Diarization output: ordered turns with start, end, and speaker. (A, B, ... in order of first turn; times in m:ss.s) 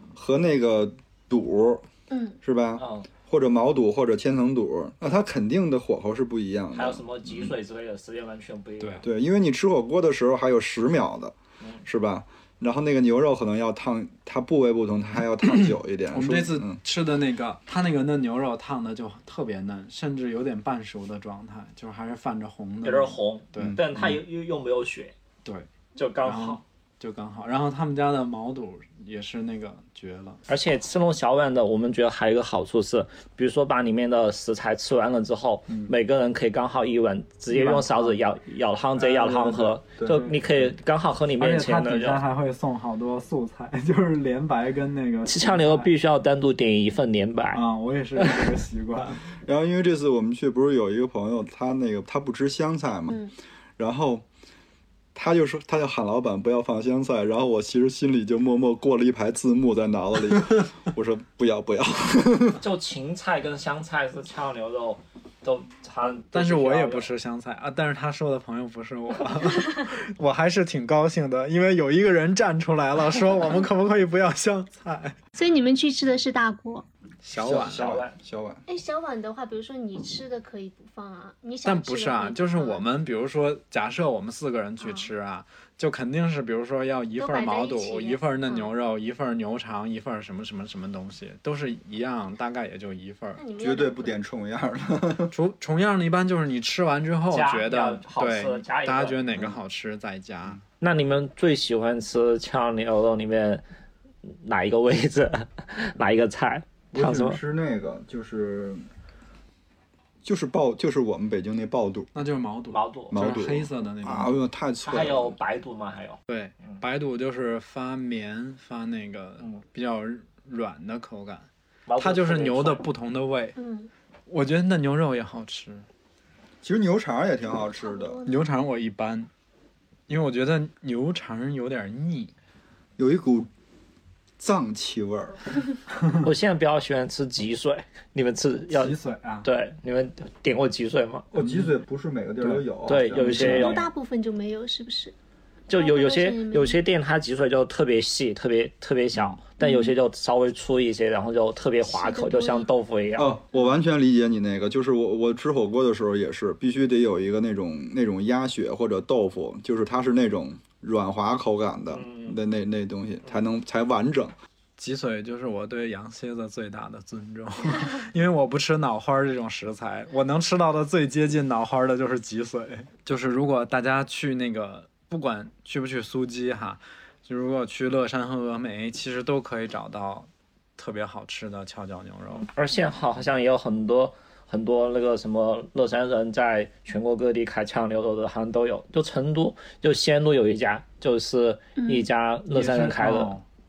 0:00.2-0:01.9 A
0:02.1-0:02.4 B
0:02.4-0:07.5 A
0:02.8-0:03.1 C
0:06.7-0:09.1 C
0:08.8-0:09.1 D
0:09.0-0:16.8 A
0:15.6-0:24.2 D
0:22.8-0:25.2 C
0:23.6-0:23.8 A
0:25.4-0:25.7 D
0:26.0-0:26.6 C
0:26.2-0:30.4 D
0:30.5-0:42.2 C
0:37.5-0:38.2 D
0:39.0-0:40.3 A
0:40.1-0:40.5 D
0:41.4-0:45.9 D
0:45.3-0:47.6 C
0:47.5-0:49.2 D
0:49.4-0:53.2 A
0:53.8-0:54.2 A
0:55.2-1:02.6 A
1:02.6-1:07.1 C
1:06.3-1:15.2 D
1:15.4-1:16.8 B
1:17.2-1:18.0 D
1:17.4-1:18.6 A
1:17.4-1:18.2 C
1:18.7-1:22.8 B
1:21.6-1:33.4 D
1:24.8-1:25.1 B
1:27.2-1:28.7 B
1:33.4-1:34.2 B
1:33.6-1:35.3 A
1:35.3-1:40.6 D
1:37.3-1:39.6 C
1:40.8-1:43.6 C
1:44.2-1:47.4 C
1:46.9-1:48.9 A
1:50.2-1:52.1 A
1:52.1-1:54.3 D
1:52.7-1:53.2 C
1:53.1-1:55.4 A
1:54.9-1:56.8 C
1:56.3-2:03.6 D
2:01.9-2:02.8 C
2:03.6-2:03.9 B
2:04.3-2:05.9 D
2:06.6-2:08.2 A
2:07.7-2:08.4 B
2:08.2-2:09.3 D
2:10.1-2:12.3 D
2:13.0-2:13.5 A
2:14.4-2:15.4 A
2:16.2-2:21.3 C
2:18.7-2:19.5 D
2:21.3-2:23.8 A
2:21.4-2:21.7 D
2:22.4-2:23.7 D
2:22.9-2:23.9 C
2:23.5-2:25.2 B
2:25.7-2:33.4 C
2:25.7-2:26.8 B
2:29.6-2:30.0 B
2:31.8-2:32.7 B
2:33.2-2:44.3 A
2:41.9-2:42.4 C
2:44.8-3:02.5 D
3:02.4-3:13.3 C
3:11.8-3:12.1 B
3:12.5-3:13.4 D